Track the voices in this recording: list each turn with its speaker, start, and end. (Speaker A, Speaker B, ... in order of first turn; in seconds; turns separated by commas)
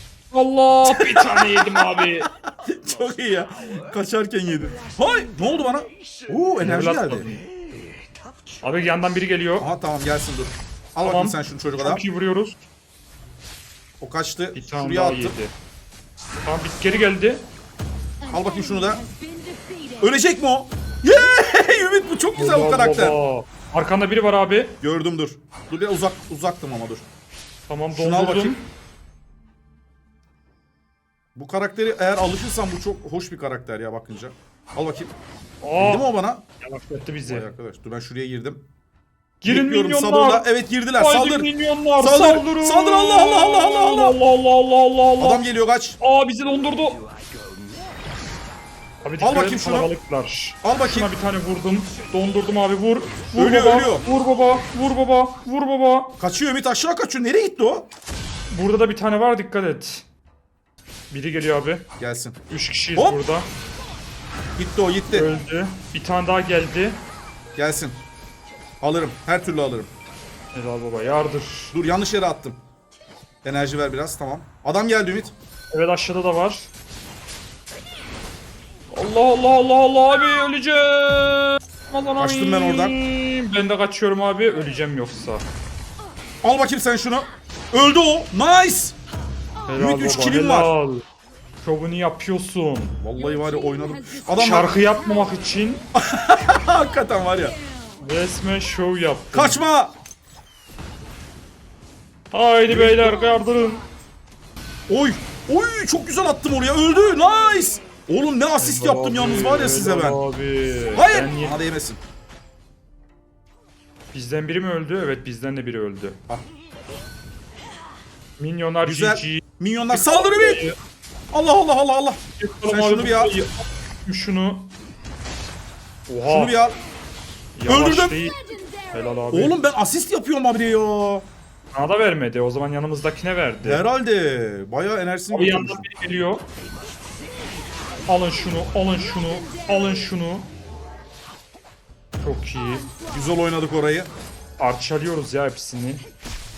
Speaker A: 0.3-2.3, Speaker B: 0.8-7.3, Speaker A: 6.6-7.4, Speaker A: 8.6-9.7, Speaker B: 9.6-12.0, Speaker A: 11.0-12.6, Speaker B: 14.0-15.3, Speaker A: 14.5-15.5, Speaker A: 16.4-17.4, Speaker B: 18.3-19.1, Speaker B: 20.0-23.2, Speaker A: 22.4-24.8, Speaker B: 24.8-27.1, Speaker A: 27.7-28.6, Speaker B: 27.9-28.5, Speaker B: 31.3-35.1, Speaker A: 35.6-36.1, Speaker B: 35.8-36.4, Speaker A: 36.6-37.5, Speaker B: 37.2-38.6, Speaker A: 39.4-45.4, Speaker B: 39.4-41.5, Speaker B: 42.0-44.1, Speaker B: 45.2-46.0, Speaker A: 46.0-47.0, Speaker A: 49.0-56.1, Speaker B: 49.2-49.9, Speaker B: 50.6-51.1, Speaker B: 53.3-54.0, Speaker B: 56.2-57.9, Speaker A: 58.5-60.0, Speaker A: 61.1-61.8, Speaker B: 62.0-62.4, Speaker A: 62.5-63.5, Speaker B: 64.6-65.3, Speaker A: 65.1-67.0, Speaker B: 67.5-68.0, Speaker B: 68.8-69.9, Speaker A: 70.5-71.7, Speaker B: 71.7-72.6, Speaker B: 73.4-75.3, Speaker A: 75.7-76.7, Speaker A: 78.9-85.4, Speaker B: 82.2-82.9, Speaker B: 86.4-89.0, Speaker A: 89.7-91.0, Speaker B: 89.8-90.7, Speaker A: 91.6-93.0, Speaker B: 93.0-94.7, Speaker A: 94.3-95.8, Speaker B: 95.9-97.5, Speaker A: 98.0-99.6, Speaker B: 99.3-99.9, Speaker A: 102.3-103.8, Speaker B: 102.7-103.3, Speaker B: 104.9-110.2, Speaker A: 108.6-111.6, Speaker B: 110.9-112.0, Speaker A: 114.1-116.2, Speaker A: 118.4-120.7, Speaker B: 118.8-120.6, Speaker B: 121.3-122.2, Speaker A: 122.4-124.7, Speaker B: 122.7-123.3, Speaker A: 126.1-126.6, Speaker B: 126.2-126.8, Speaker A: 127.5-129.6, Speaker B: 127.7-128.2, Speaker B: 129.3-131.2, Speaker A: 131.7-133.8, Speaker B: 133.6-135.8, Speaker A: 135.3-136.4, Speaker A: 138.1-140.5, Speaker A: 142.2-142.9, Speaker B: 143.1-144.1, Speaker A: 144.6-146.0